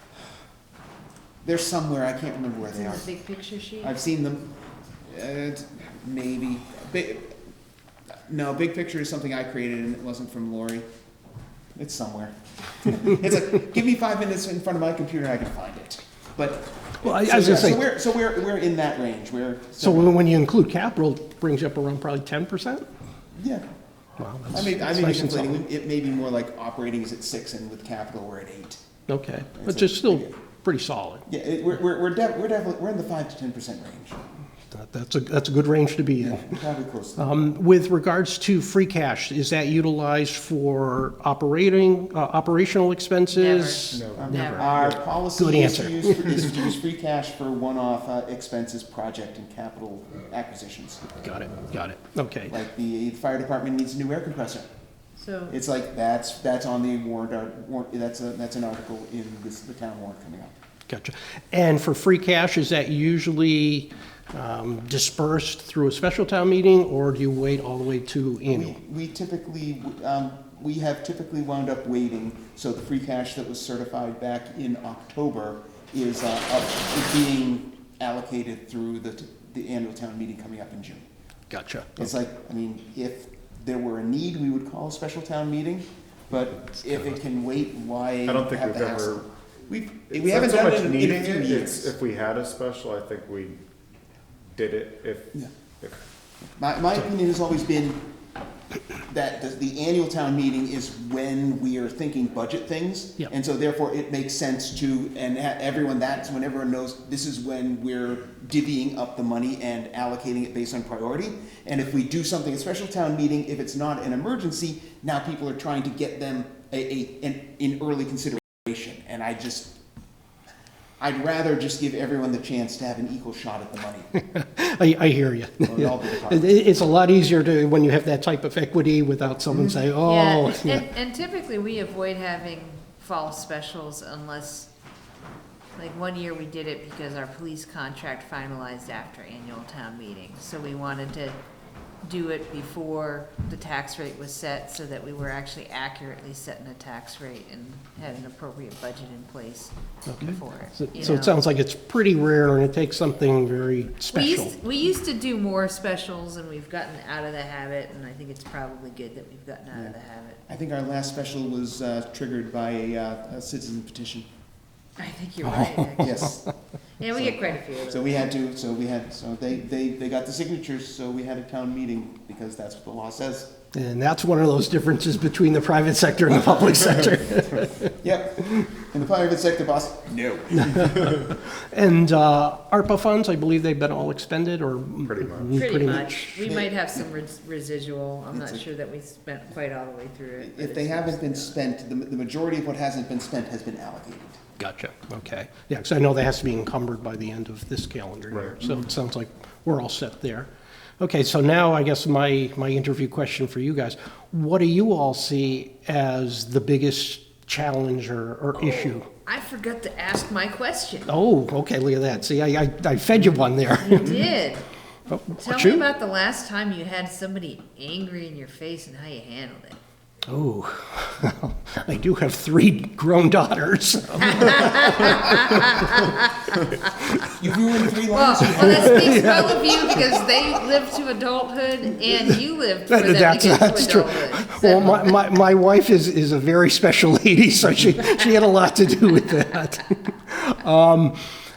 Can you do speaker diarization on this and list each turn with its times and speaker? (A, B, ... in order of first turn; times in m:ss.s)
0:01.4-0:03.1 A
0:02.7-0:03.9 B
0:03.8-0:04.5 A
0:05.1-0:07.4 A
0:08.3-0:10.8 A
0:11.8-0:20.1 A
0:17.0-0:17.8 C
0:19.8-0:22.9 C
0:23.4-0:23.6 A
0:24.2-0:25.6 C
0:24.5-0:28.8 A
0:29.1-0:31.2 C
0:29.6-0:30.4 A
0:31.3-0:34.2 A
0:34.7-0:36.6 C
0:36.2-0:37.6 A
0:37.2-0:44.6 C
0:43.3-0:44.7 B
0:43.9-0:45.0 D
0:44.2-0:51.1 A
0:45.4-0:46.5 C
0:51.2-0:52.6 C
0:52.5-0:54.7 A
0:55.2-0:55.6 B
0:55.5-1:00.5 A
1:00.9-1:08.8 C
1:08.5-1:21.1 A
1:21.5-1:22.0 C
1:22.0-1:31.9 A
1:28.2-1:29.2 D
1:30.1-1:33.6 D
1:34.5-1:36.0 D
1:36.6-1:38.0 A
1:39.0-1:59.8 A
2:01.0-2:04.1 A
2:04.2-2:10.8 C
2:05.6-2:06.6 A
2:09.9-2:14.7 B
2:15.8-2:21.4 B
2:22.0-2:31.4 B
2:30.1-2:34.5 C
2:34.1-2:40.5 B
2:40.5-2:44.3 A
2:45.0-2:46.4 B
2:45.4-2:46.5 C
2:46.0-2:46.4 A
2:47.0-2:48.3 B
2:47.1-2:53.5 A
2:53.7-2:58.0 C
2:58.0-3:01.2 A
3:00.6-3:06.4 C
3:05.1-3:05.9 D
3:05.5-3:11.6 B
3:08.3-3:08.6 A
3:10.4-3:14.4 A
3:14.6-3:20.5 C
3:18.3-3:18.8 D
3:21.0-3:29.1 C
3:28.6-3:31.1 B
3:31.1-3:34.3 C
3:33.7-3:34.6 B
3:35.1-3:35.9 C
3:35.4-3:39.8 B
3:40.3-3:46.0 C
3:44.2-3:46.7 B
3:47.2-3:49.4 A
3:48.1-3:55.2 B
3:48.6-3:50.2 C
3:52.9-4:01.2 C